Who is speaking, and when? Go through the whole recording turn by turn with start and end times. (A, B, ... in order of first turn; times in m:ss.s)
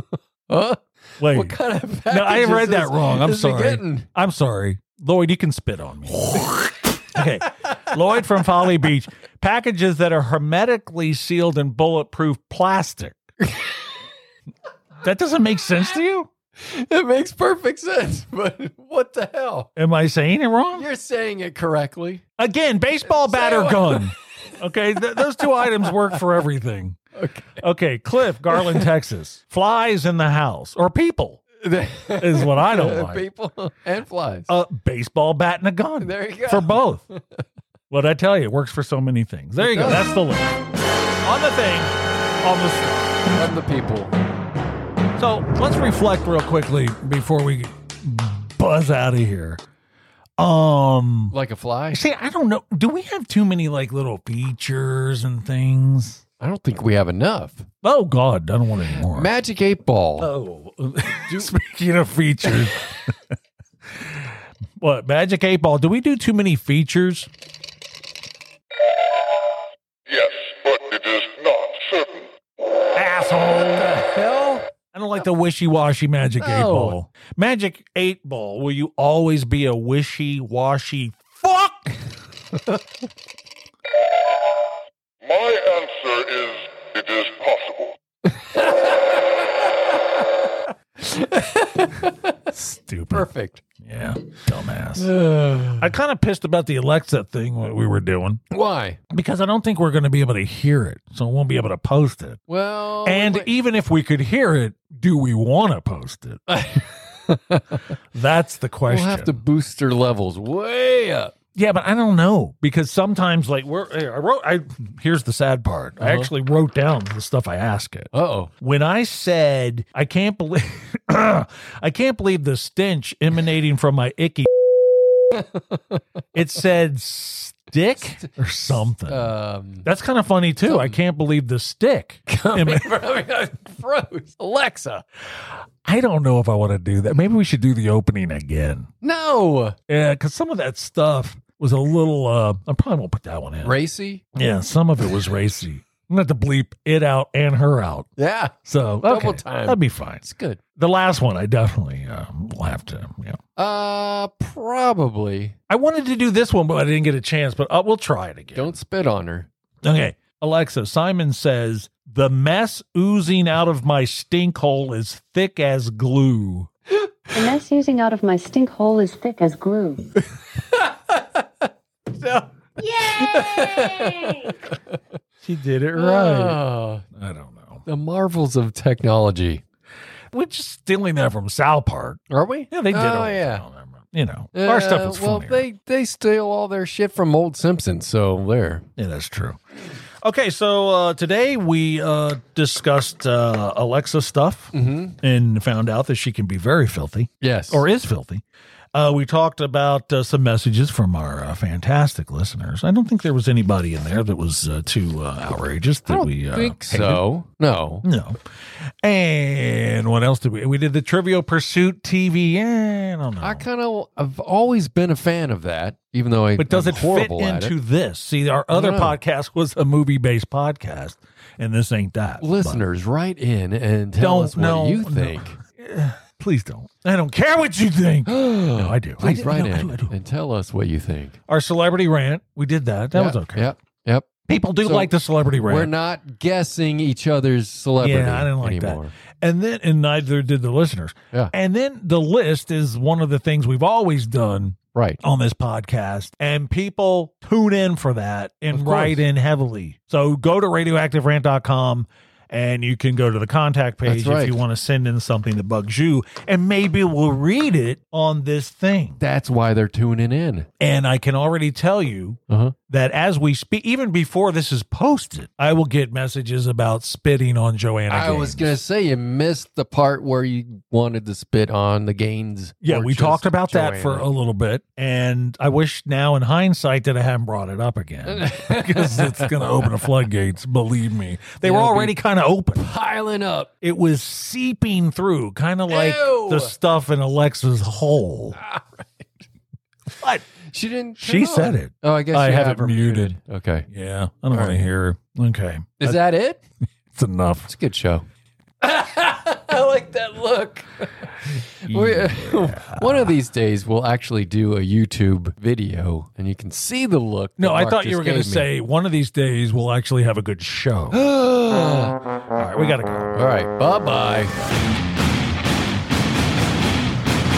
0:00.5-0:04.1 A
0:01.2-0:13.2 B
0:15.0-0:16.3 B
0:16.6-0:19.7 A
0:19.8-0:20.9 B
0:20.7-0:22.2 A
0:22.4-0:27.0 B
0:23.2-0:24.1 A
0:27.1-0:27.6 A
0:27.6-0:31.4 B
0:28.5-0:28.8 A
0:31.6-0:34.5 A
0:32.2-0:33.2 B
0:34.5-0:37.0 B
0:36.0-0:37.4 A
0:37.9-0:40.6 B
0:39.6-0:40.1 A
0:41.2-0:43.3 B
0:43.2-0:44.1 A
0:45.2-0:49.6 B
0:50.4-0:51.4 B
0:51.3-0:52.0 A
0:51.9-0:56.2 B
0:56.4-0:57.7 A
0:57.8-0:59.3 B
0:59.1-1:00.3 A
1:00.2-1:03.1 B
1:01.3-1:01.5 A
1:04.0-1:04.3 B
1:04.8-1:07.3 B
1:10.1-1:12.3 C
1:12.9-1:14.0 B
1:13.6-1:14.7 A
1:14.9-1:22.1 B
1:16.4-1:17.0 A
1:25.2-1:28.0 C
1:28.3-1:30.2 A
1:31.0-1:32.4 A
1:32.5-1:33.3 B
1:33.1-1:33.6 A
1:33.8-1:35.1 B
1:35.0-1:35.9 A
1:35.8-1:38.4 B
1:38.5-1:39.0 A
1:39.1-1:42.4 B
1:42.5-1:43.5 A
1:43.0-1:46.4 B
1:46.5-1:47.8 A
1:48.1-1:49.4 B
1:48.9-1:51.3 A
1:51.5-2:04.5 B
1:56.0-1:56.3 A
1:58.1-1:58.5 A
2:05.3-2:06.0 A
2:06.3-2:09.3 B
2:08.2-2:09.9 A
2:09.8-2:13.0 B
2:10.6-2:11.0 A
2:12.3-2:15.0 A
2:15.4-2:18.9 B
2:19.0-2:19.8 A
2:19.9-2:23.8 B
2:23.6-2:24.2 A
2:24.3-2:28.1 B
2:28.2-2:30.6 A
2:28.6-2:30.2 B
2:30.8-2:33.4 B
2:33.6-2:35.6 A
2:35.7-2:38.7 B
2:38.5-2:39.5 A
2:39.8-2:46.7 B
2:47.3-2:50.1 D
2:50.6-2:51.4 A
2:52.1-2:55.0 A
2:55.4-2:57.8 B
2:55.9-2:57.0 A
2:57.8-2:59.6 A
3:00.3-3:05.6 B
3:02.3-3:03.7 A
3:04.5-3:08.8 A
3:09.0-3:09.6 B
3:10.2-3:18.4 B
3:14.7-3:15.2 A
3:17.4-3:17.8 A
3:18.9-3:27.2 B
3:26.1-3:28.0 A
3:28.0-3:28.4 B
3:29.0-3:33.6 B
3:33.4-3:37.7 A
3:36.6-3:42.8 B
3:38.7-3:39.2 A
3:42.4-3:45.6 A
3:44.2-3:50.1 B
3:48.2-3:51.4 A
3:51.5-3:53.7 B
3:53.1-3:55.1 A
3:54.5-3:55.9 B
3:55.6-3:59.1 A
3:58.0-4:19.2 B
4:04.9-4:05.2 A
4:08.7-4:09.2 A
4:14.0-4:14.6 A
4:19.2-4:20.7 A
4:20.8-4:28.8 B
4:22.5-4:22.7 A
4:28.1-4:34.3 A
4:32.8-4:42.8 B
4:38.3-4:39.6 A
4:41.6-4:42.2 A
4:42.7-4:43.7 A
4:43.8-4:48.6 B
4:45.9-4:46.7 A
4:48.6-4:49.3 A
4:50.2-4:50.4 B
4:50.7-4:53.9 A
4:51.2-4:53.4 B
4:53.9-4:56.2 B
4:54.5-4:54.8 A
4:56.0-4:56.6 A
4:57.1-4:57.7 B
4:57.7-4:58.2 A
4:58.8-5:08.7 A
5:01.8-5:03.4 B
5:07.6-5:11.2 B
5:11.1-5:12.2 A
5:12.5-5:13.3 B
5:13.3-5:14.5 A